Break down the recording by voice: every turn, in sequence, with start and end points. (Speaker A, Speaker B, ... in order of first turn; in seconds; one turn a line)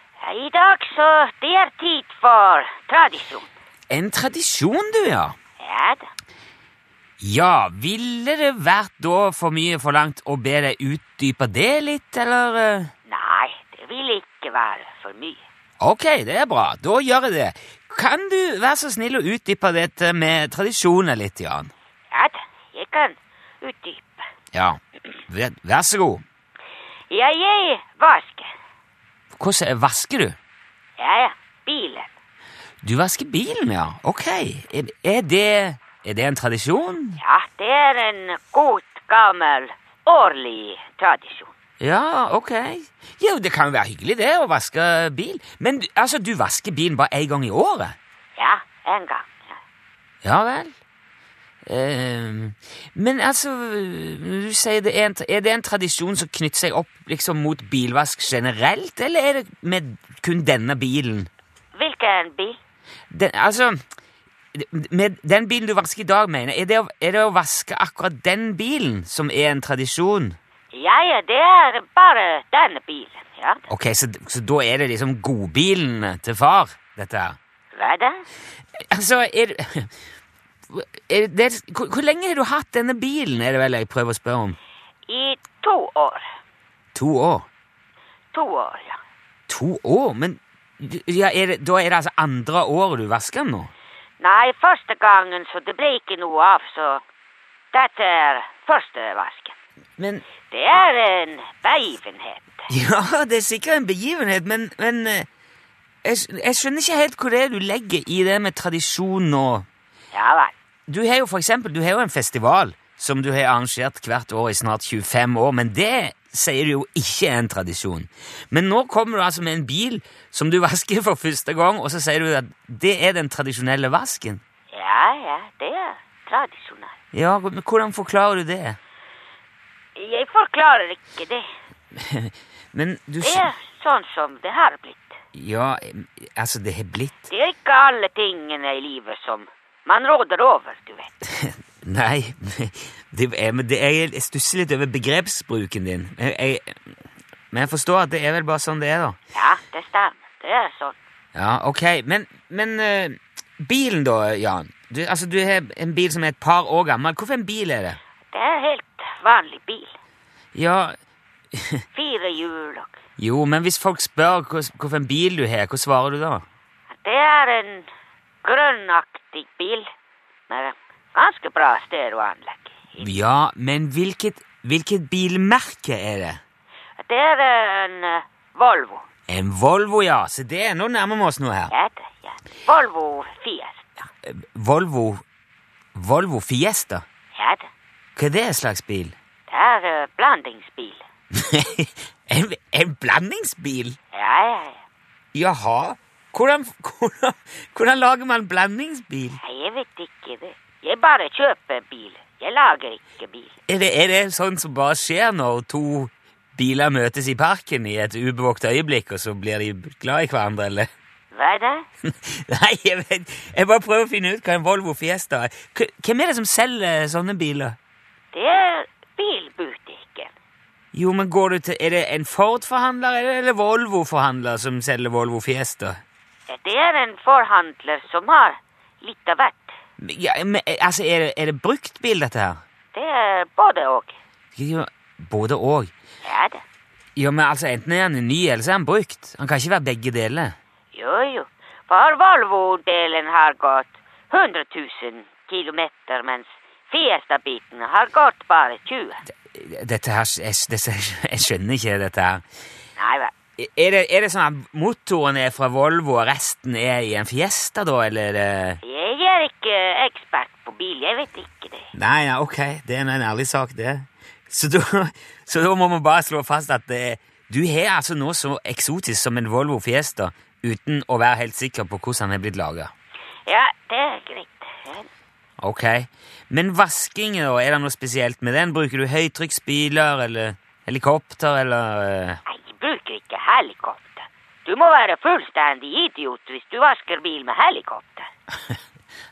Speaker A: 0.2-3.5
Speaker B: 3.9-5.3
Speaker A: 5.6-6.1
Speaker B: 7.2-12.9
Speaker A: 13.1-15.4
Speaker B: 15.8-21.7
Speaker A: 22.1-24.2
Speaker B: 24.5-26.2
Speaker A: 27.1-28.5
Speaker B: 29.3-30.4
Speaker A: 31.0-32.1
Speaker B: 32.8-37.2
Speaker A: 37.2-41.5
Speaker B: 41.8-48.0
Speaker A: 48.4-49.6
Speaker B: 50.2-50.7
Speaker B: 51.6-61.3
Speaker A: 61.7-62.6
Speaker B: 63.1-63.8
Speaker B: 64.5-70.4
Speaker A: 70.7-73.7
Speaker B: 73.7-77.4
Speaker A: 77.7-78.2
Speaker B: 78.8-79.9
Speaker B: 80.7-84.6
Speaker A: 85.1-86.3
Speaker B: 86.9-87.5
Speaker A: 88.3-89.0
Speaker B: 89.5-93.7
Speaker A: 94.2-97.0
Speaker A: 97.7-99.6
Speaker B: 100.0-100.2
Speaker A: 100.4-102.6
Speaker B: 102.7-105.3
Speaker B: 106.0-109.7
Speaker A: 110.1-110.5
Speaker B: 110.9-124.4
Speaker A: 124.7-126.9
Speaker B: 127.1-128.8
Speaker A: 129.9-131.5
Speaker B: 131.9-133.5
Speaker A: 133.2-135.2
Speaker B: 135.3-137.3
Speaker A: 137.3-141.1
Speaker B: 141.3-146.8
Speaker B: 147.5-149.2
Speaker A: 149.3-151.0
Speaker B: 151.3-158.0
Speaker A: 158.3-159.9
Speaker B: 160.5-161.0
Speaker B: 161.5-161.8
Speaker A: 161.9-163.0
Speaker B: 163.2-166.4
Speaker A: 167.0-167.9
Speaker A: 168.4-169.9
Speaker A: 170.5-173.1
Speaker B: 173.0-176.4
Speaker A: 177.0-179.1
Speaker B: 179.3-181.7
Speaker A: 181.7-184.0
Speaker B: 184.2-185.2
Speaker B: 185.9-187.0
Speaker A: 187.3-187.7
Speaker B: 188.2-189.1
Speaker A: 189.5-191.0
Speaker B: 191.3-194.0
Speaker A: 194.1-194.8
Speaker B: 195.3-199.4
Speaker A: 199.4-203.6
Speaker B: 203.7-210.9
Speaker A: 211.3-211.8
Speaker B: 212.0-217.8
Speaker A: 218.3-220.3
Speaker B: 220.9-226.0
Speaker A: 226.5-229.8
Speaker B: 230.0-232.6
Speaker A: 232.9-234.2
Speaker B: 234.5-235.9
Speaker A: 236.2-236.6
Speaker B: 237.2-240.5
Speaker A: 240.9-249.2
Speaker B: 249.4-252.4
Speaker A: 253.0-253.3
Speaker B: 253.6-258.8
Speaker A: 258.8-261.9
Speaker B: 261.9-272.9
Speaker A: 273.4-275.1
Speaker B: 275.6-282.4
Speaker A: 282.5-288.3